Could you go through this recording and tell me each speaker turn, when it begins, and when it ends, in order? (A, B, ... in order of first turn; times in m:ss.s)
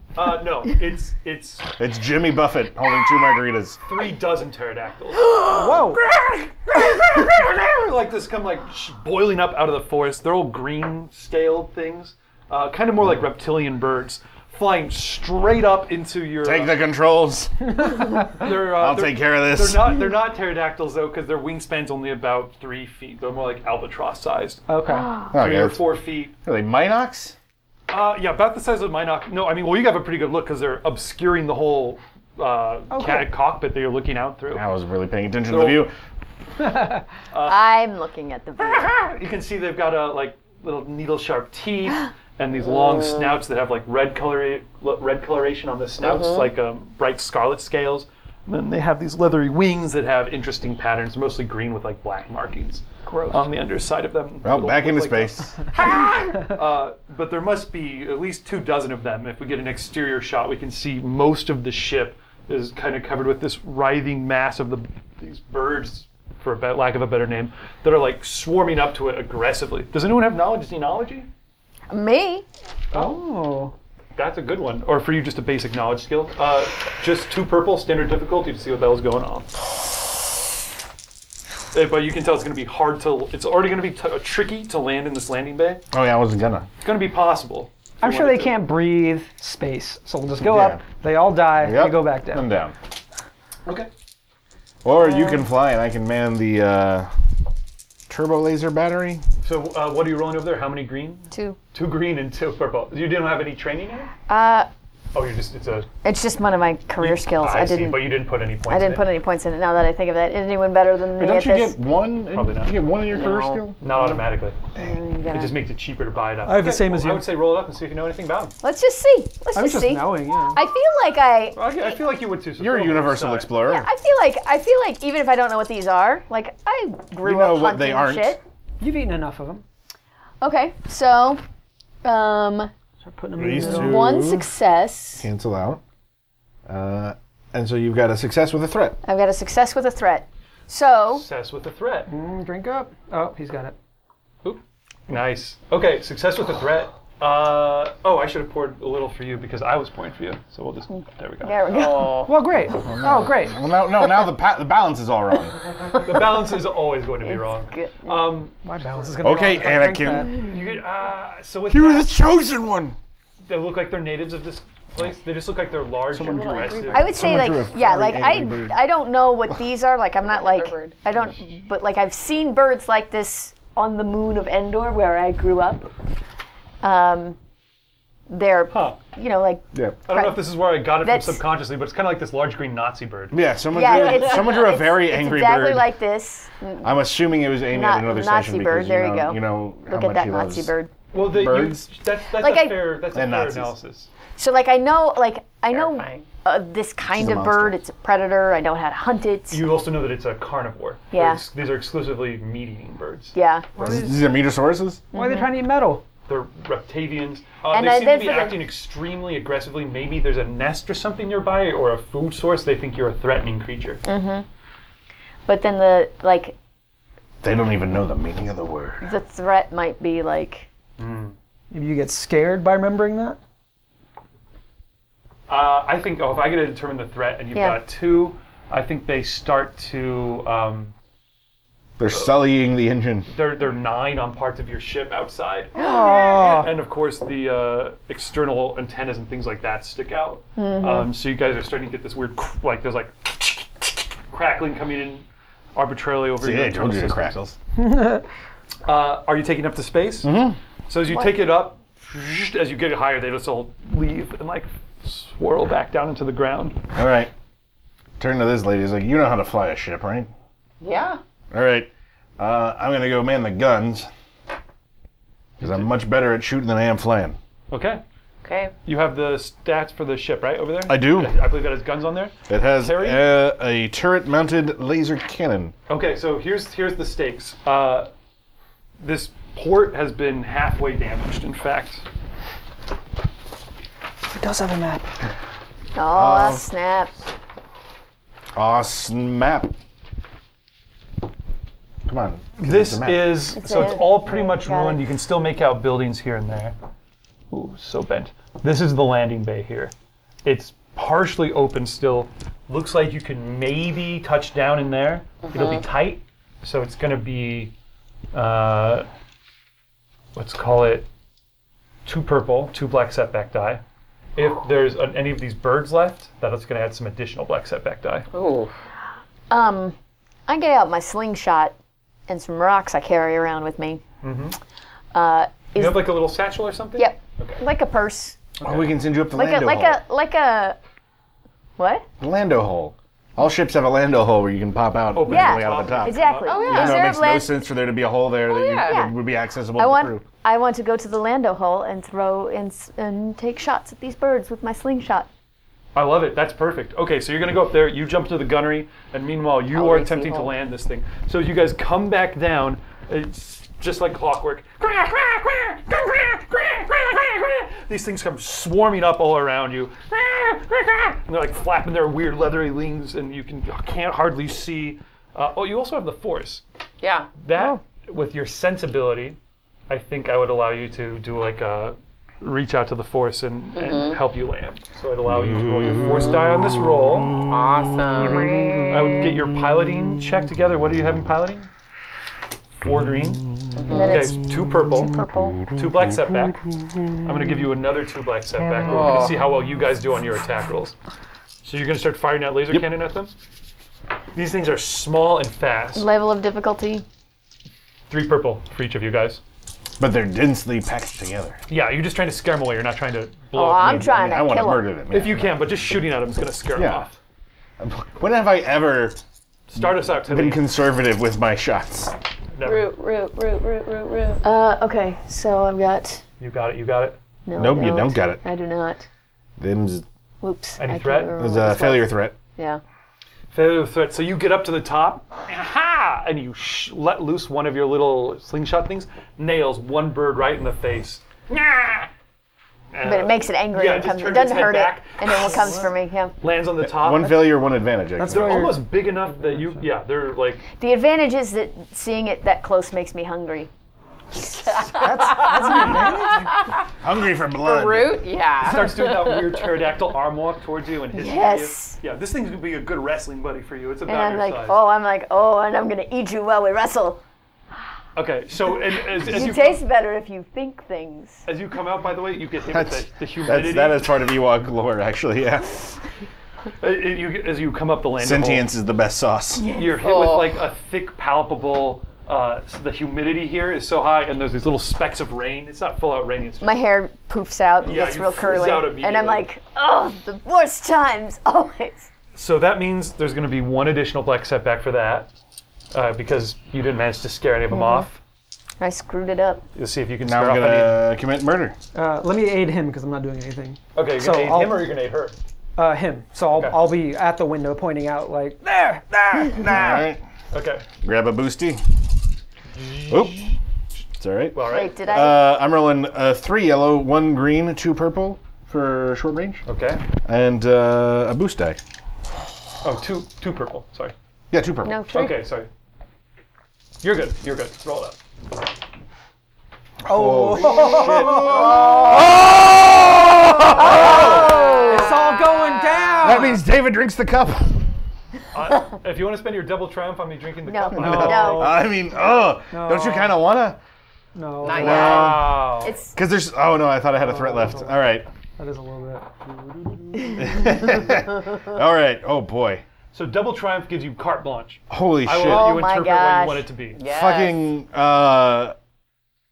0:00.1-0:01.6 A
0:01.8-0:03.8 B
0:03.8-0:16.8 A
0:05.5-0:06.0 C
0:16.4-0:17.7 B
0:18.2-0:24.6 A
0:18.4-0:20.1 B
0:24.7-0:25.3 C
0:25.3-0:27.4 B
0:25.3-0:26.3 A
0:27.9-0:34.7 A
0:32.9-0:33.3 C
0:34.5-0:35.9 B
0:35.4-0:35.9 A
0:36.6-0:37.0 C
0:37.3-0:37.7 A
0:37.4-0:39.0 D
0:38.6-1:11.3 A
0:42.7-0:43.3 E
0:46.0-0:46.5 E
0:53.0-0:53.5 C
0:54.4-0:55.6 B
1:11.9-1:12.4 D
1:12.9-1:13.2 A
1:12.9-1:13.7 C
1:14.2-1:19.5 A
1:21.7-1:25.8 A
1:25.9-1:26.7 B
1:26.8-1:28.6 A
1:28.0-1:32.5 C
1:30.4-1:30.8 B
1:31.6-1:32.7 B
1:34.8-1:37.1 B
1:35.0-1:35.4 D
1:38.1-1:39.2 B
1:39.4-1:44.1 A
1:41.3-1:41.6 D
1:44.3-1:44.7 D
1:45.1-1:45.9 A
1:46.0-1:51.8 D
1:47.0-1:49.1 A
1:51.2-1:53.8 B
1:52.3-1:52.9 A
1:53.1-1:53.6 E
1:53.8-1:54.6 A
1:54.8-1:55.6 D
1:55.3-1:58.6 A
1:56.4-1:57.3 C
1:58.6-2:01.6 D
1:59.5-2:00.6 C
2:01.5-2:03.5 A
2:02.6-2:03.9 B
2:03.6-2:08.4 D
2:07.2-2:08.4 B
2:08.8-2:09.6 C
2:10.4-2:11.4 D
2:12.0-2:12.7 D
2:13.0-2:14.2 C
2:13.4-2:14.5 B
2:13.6-2:15.3 D
2:15.2-2:15.8 B
2:16.7-2:19.0 B
2:19.0-2:21.2 D
2:21.1-2:22.1 A
2:22.1-2:23.7 C
2:24.4-2:31.7 A
2:31.4-2:32.2 D
2:31.7-2:32.3 E
2:32.2-2:33.6 C
2:32.8-2:35.6 B
2:36.0-2:42.2 A
2:37.2-2:38.3 D
2:38.6-2:40.4 C
2:39.2-2:40.3 B
2:41.7-2:43.0 B
2:43.5-2:47.3 A
2:46.1-2:48.8 B
2:46.3-2:46.9 E
2:46.9-2:55.9 D
2:50.2-2:51.0 E
2:56.8-2:57.4 D
2:58.3-3:01.4 D
2:58.7-2:59.0 A
3:00.1-3:03.4 A
3:03.3-3:06.0 B
3:03.7-3:07.0 D
3:06.8-3:11.9 B
3:07.6-3:10.9 D
3:11.1-3:14.1 A
3:12.4-3:13.0 D
3:13.1-3:13.7 B
3:14.4-3:19.7 D
3:15.7-3:16.2 E
3:17.1-3:17.8 B
3:19.5-3:23.3 A
3:21.1-3:21.4 D
3:23.3-3:23.8 D
3:23.8-3:24.2 C
3:23.8-3:25.0 B
3:25.1-3:25.5 D
3:25.1-3:26.0 C
3:26.2-3:34.0 A
3:27.7-3:28.7 D
3:34.0-3:34.4 D
3:35.5-3:36.5 D
3:37.4-3:39.1 B
3:39.0-3:40.7 D
3:41.0-3:41.4 A
3:41.7-3:43.4 C
3:45.5-3:50.9 A
3:47.5-3:47.8 D
3:52.0-3:53.3 B
3:53.3-4:07.4 A
3:55.7-3:56.7 C
4:00.6-4:01.1 D
4:06.4-4:07.6 B
4:07.8-4:08.2 C
4:08.8-4:10.3 A
4:10.2-4:10.6 B
4:10.9-4:16.8 A
4:16.9-4:17.3 B
4:18.2-4:20.3 B
4:20.8-4:21.2 E
4:21.5-4:24.1 B
4:25.6-4:27.4 B
4:25.6-4:25.9 A
4:27.7-4:28.0 A
4:28.4-4:28.7 E
4:28.8-4:33.2 A
4:30.9-4:31.4 B
4:32.5-4:35.7 B
4:35.9-4:38.1 A
4:39.0-4:42.0 A
4:44.2-4:45.1 C
4:45.9-4:47.1 D
4:46.1-4:46.6 B
4:48.5-4:49.7 B
4:52.0-4:53.6 B
4:52.6-4:56.7 A
4:53.5-4:55.1 D
4:57.5-4:59.9 A
5:00.4-5:07.7 A
5:05.4-5:05.8 E
5:08.3-5:09.1 A
5:10.4-5:11.1 A
5:12.0-5:13.8 A
5:14.4-5:18.2 A
5:18.3-5:18.7 E
5:19.5-5:19.9 D
5:20.5-5:21.7 D
5:22.3-5:24.0 D
5:24.2-5:24.6 A
5:25.1-5:26.2 D
5:25.7-5:27.6 A
5:27.0-5:28.4 D
5:28.6-5:28.9 A
5:28.6-5:30.0 B
5:29.3-5:30.8 D
5:31.8-5:32.0 D
5:32.2-5:40.2 B
5:35.1-5:36.9 A
5:35.2-5:37.5 D
5:36.4-5:37.1 E
5:38.5-5:39.0 E
5:38.9-5:39.1 D
5:39.8-5:45.3 D
5:45.9-6:06.6 A
5:49.7-5:50.5 E
6:07.0-6:07.3 E
6:07.4-6:09.4 A
6:09.9-6:17.4 A
6:13.7-6:14.2 E
6:17.5-6:18.9 E
6:18.9-6:21.7 A
6:22.8-6:25.2 A
6:23.8-6:24.2 E
6:23.9-6:25.6 D
6:25.7-6:26.6 A
6:27.2-6:31.0 A
6:28.8-6:29.4 E
6:31.6-6:33.3 A
6:34.3-6:36.1 A
6:35.9-6:37.0 D
6:38.1-6:39.4 A
6:40.0-6:41.6 B
6:41.7-6:44.1 A
6:43.5-6:44.8 D
6:43.8-6:45.5 B
6:45.1-6:47.2 A
6:46.8-6:47.1 B
6:47.8-6:49.2 B
6:49.7-6:50.7 A
6:49.8-6:52.2 B
6:52.5-6:52.9 A
6:52.6-6:54.4 E
6:54.4-6:56.2 D
6:56.4-6:57.2 A
6:57.4-6:59.1 D
6:57.6-6:58.4 B
6:59.6-7:00.0 B
7:00.4-7:02.8 D
7:00.8-7:01.5 A
7:01.4-7:02.3 B
7:03.5-7:12.1 A
7:12.9-7:15.8 A
7:13.0-7:16.3 D
7:15.5-7:15.9 C
7:16.4-7:17.5 A
7:16.8-7:18.8 B
7:18.2-7:19.8 C
7:18.2-7:20.6 A
7:20.8-7:23.7 D
7:24.9-7:26.6 C
7:25.0-7:26.7 E
7:27.0-7:28.2 B
7:27.6-7:29.5 E
7:28.6-7:34.8 A
7:31.1-7:32.0 D
7:34.0-7:37.2 D
7:38.2-7:39.8 A
7:39.0-7:41.4 D
7:41.4-7:44.1 A
7:42.7-7:46.0 B
7:46.8-7:48.7 A
7:48.2-7:49.7 B
7:49.6-7:50.0 D
7:49.7-7:56.8 A
7:50.0-7:50.6 E
7:56.6-8:02.1 D
7:57.8-7:59.5 A
8:02.3-8:05.3 A
8:05.9-8:08.2 A
8:07.7-8:08.1 D
8:08.8-8:09.6 D
8:09.8-8:11.1 A
8:10.2-8:11.8 B
8:11.9-8:14.9 C
8:13.9-8:15.4 A
8:15.8-8:20.1 C
8:16.5-8:16.8 A
8:19.5-8:20.2 B
8:20.5-8:20.8 A
8:21.0-8:21.8 B
8:22.7-8:23.5 A
8:23.1-8:23.5 B
8:24.2-8:29.6 B
8:24.5-8:25.0 A
8:24.6-8:25.4 D
8:29.6-8:30.0 A
8:30.2-8:31.8 B
8:32.8-8:34.1 A
8:34.5-8:35.0 B
8:34.8-8:35.4 D
8:35.1-8:35.7 A
8:37.0-8:38.2 A
8:40.0-8:42.2 C
8:40.0-8:45.0 B
8:43.6-8:46.6 C
8:44.0-8:45.2 D
8:44.0-8:44.3 A
8:44.6-8:46.2 E
8:46.2-8:47.8 B
8:48.5-8:51.9 A
8:50.6-8:51.8 D
8:50.9-8:53.8 B
8:52.7-8:53.4 C
8:54.3-8:55.2 C
8:54.6-8:55.4 E
8:54.7-8:56.0 A
8:54.7-8:58.3 B
8:55.8-8:56.2 D
8:57.2-8:58.0 C
8:58.6-9:00.9 C
9:00.4-9:02.8 B
9:03.1-9:07.0 A
9:04.9-9:05.8 B
9:05.4-9:06.7 D
9:07.0-9:07.7 E
9:07.0-9:08.7 B